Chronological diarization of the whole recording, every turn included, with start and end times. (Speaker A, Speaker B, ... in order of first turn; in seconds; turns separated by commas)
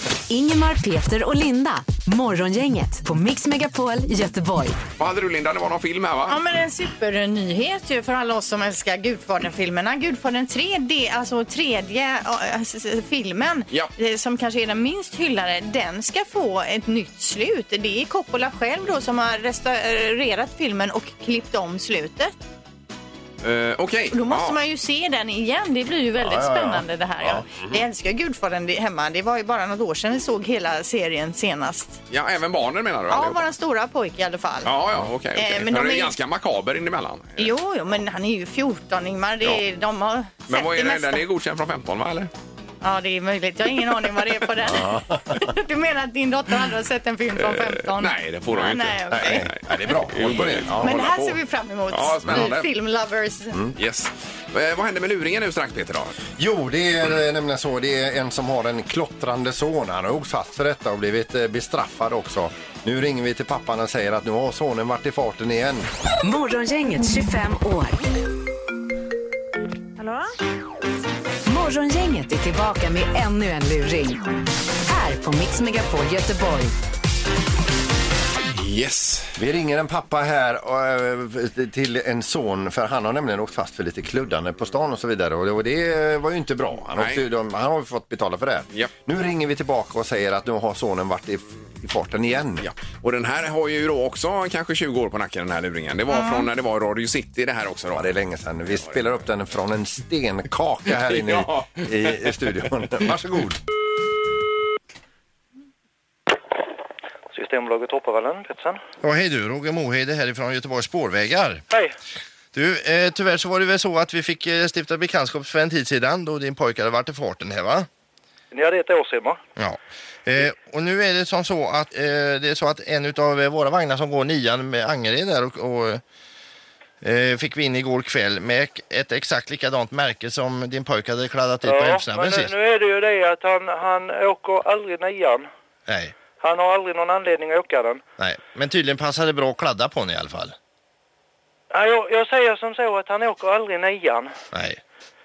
Speaker A: 0.3-4.8, Speaker B: 5.0-6.4, Speaker C: 6.3-22.4, Speaker B: 23.4-24.6, Speaker C: 24.1-32.0, Speaker D: 26.2-27.4, Speaker B: 32.1-33.4, Speaker C: 33.1-34.7, Speaker B: 34.6-37.5, Speaker C: 35.4-36.1, Speaker C: 37.4-41.2, Speaker B: 40.5-42.3, Speaker C: 42.8-49.5, Speaker D: 44.6-45.4, Speaker B: 47.4-51.4, Speaker D: 49.1-51.0, Speaker C: 50.7-53.6, Speaker B: 51.9-52.7, Speaker B: 53.8-56.2, Speaker D: 56.4-65.9, Speaker A: 66.2-68.0, Speaker A: 71.5-74.2, Speaker A: 74.8-76.7, Speaker B: 78.5-79.3, Speaker D: 79.3-92.7, Speaker B: 86.9-87.2, Speaker B: 92.6-98.1, Speaker C: 96.1-96.5, Speaker D: 97.9-103.6, Speaker B: 101.0-102.2, Speaker E: 107.3-108.8, Speaker F: 109.0-111.6, Speaker F: 112.5-117.9, Speaker E: 118.5-119.4, Speaker F: 119.6-126.0, Speaker F: 127.0-132.5, Speaker E: 131.6-135.5, Speaker F: 135.9-136.1, Speaker E: 136.4-138.0, Speaker F: 138.2-140.5, Speaker E: 141.7-144.3, Speaker F: 144.5-144.8